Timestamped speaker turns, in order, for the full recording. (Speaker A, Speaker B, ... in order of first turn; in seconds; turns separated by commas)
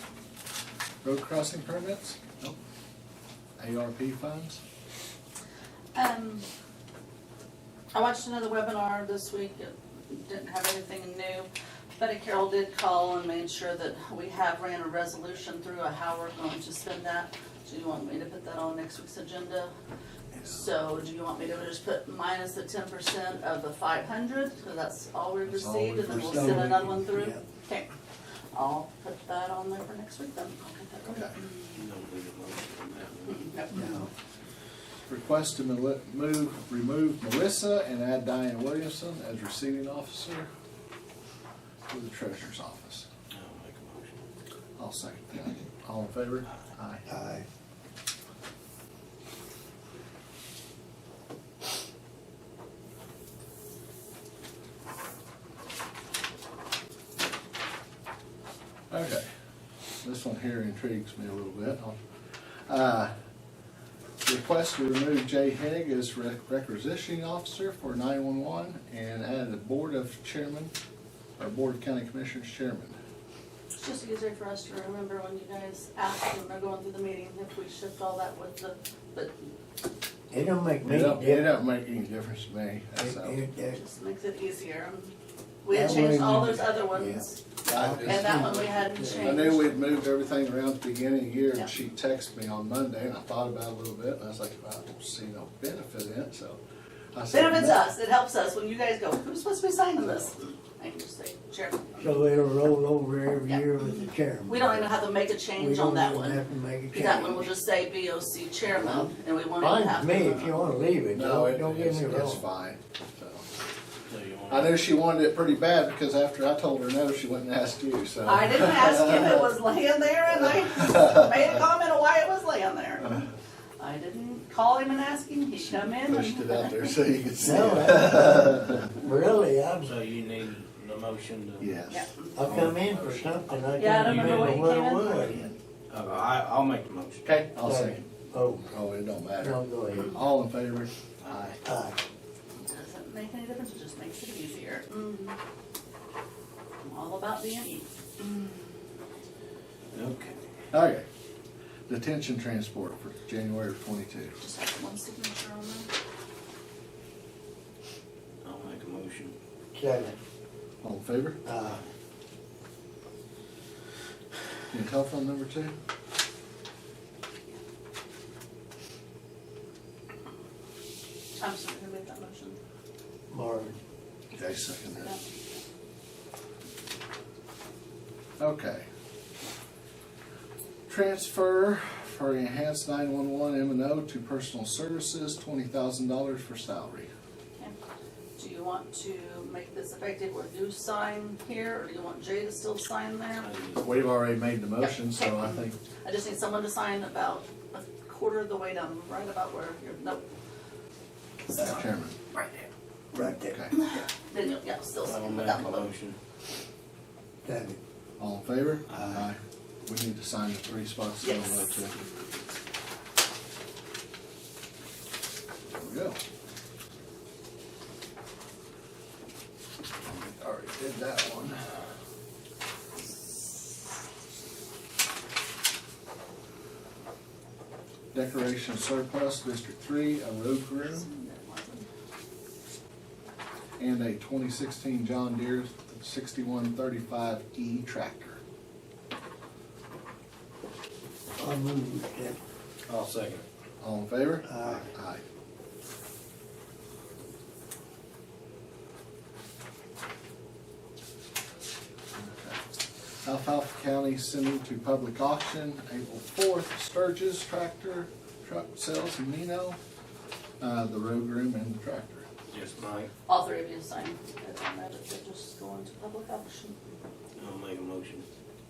Speaker A: 1.0-2.6, Speaker A: 3.6-4.6, Speaker B: 5.9-6.5, Speaker B: 7.9-19.7, Speaker B: 20.4-27.9, Speaker A: 25.4-27.0, Speaker C: 26.1-27.4, Speaker B: 28.5-31.9, Speaker A: 31.1-31.3, Speaker D: 31.7-33.5, Speaker B: 33.3-34.0, Speaker C: 33.8-34.1, Speaker A: 35.1-40.5, Speaker A: 41.9-43.1, Speaker D: 43.3-44.2, Speaker A: 44.8-47.0, Speaker C: 47.1-47.5, Speaker A: 58.9-59.3, Speaker A: 60.0-62.0, Speaker A: 62.7-63.1, Speaker A: 64.2-70.7, Speaker A: 71.4-73.0, Speaker B: 73.7-79.5, Speaker C: 80.3-81.5, Speaker A: 80.8-83.4, Speaker C: 83.0-83.8, Speaker B: 83.7-89.6, Speaker C: 85.7-89.3, Speaker A: 87.7-96.6, Speaker A: 97.1-97.9, Speaker B: 97.3-102.2, Speaker C: 102.0-104.9, Speaker B: 103.5-110.6, Speaker C: 105.5-107.5, Speaker C: 108.8-112.4, Speaker A: 111.1-113.5, Speaker D: 114.1-114.8, Speaker A: 114.5-119.5, Speaker B: 118.2-123.2, Speaker A: 120.7-121.2, Speaker B: 123.8-127.0, Speaker A: 125.6-128.9, Speaker C: 127.4-129.9, Speaker D: 129.8-131.7, Speaker A: 131.6-132.1, Speaker B: 131.9-132.6, Speaker C: 132.3-135.5, Speaker D: 132.4-135.2, Speaker B: 133.8-135.5, Speaker D: 135.9-137.4, Speaker A: 137.2-138.1, Speaker C: 137.6-138.7, Speaker A: 138.7-141.6, Speaker C: 139.4-140.2, Speaker D: 141.2-141.6, Speaker C: 141.7-142.0, Speaker B: 142.5-145.4, Speaker B: 146.8-148.7, Speaker D: 149.9-150.4, Speaker A: 150.7-151.1, Speaker A: 151.9-154.4, Speaker B: 154.4-155.9, Speaker D: 158.4-159.3, Speaker C: 159.7-160.2, Speaker A: 160.8-161.4, Speaker C: 161.4-161.8, Speaker A: 164.7-165.7, Speaker B: 171.4-172.6, Speaker C: 173.3-173.8, Speaker A: 174.3-175.2, Speaker B: 175.0-175.3, Speaker A: 178.4-178.9, Speaker A: 180.9-187.1, Speaker B: 188.4-193.5, Speaker D: 193.4-194.0, Speaker A: 193.8-195.8, Speaker B: 194.8-200.3, Speaker B: 201.5-202.7, Speaker A: 201.6-202.2, Speaker C: 203.1-203.7, Speaker A: 203.4-203.7, Speaker B: 203.7-205.9, Speaker D: 205.1-206.2, Speaker C: 207.4-207.8, Speaker A: 208.2-212.0, Speaker C: 208.9-209.2, Speaker B: 211.2-212.3, Speaker A: 215.7-216.2, Speaker A: 220.0-221.8, Speaker A: 228.1-231.1, Speaker B: 230.8-231.9, Speaker A: 233.8-238.4, Speaker C: 241.4-242.4, Speaker D: 242.9-243.4, Speaker A: 243.8-245.2, Speaker C: 244.5-244.9, Speaker A: 252.2-252.6, Speaker A: 253.2-259.8, Speaker A: 260.6-262.3, Speaker D: 262.5-263.1, Speaker B: 263.3-266.8, Speaker D: 267.4-268.2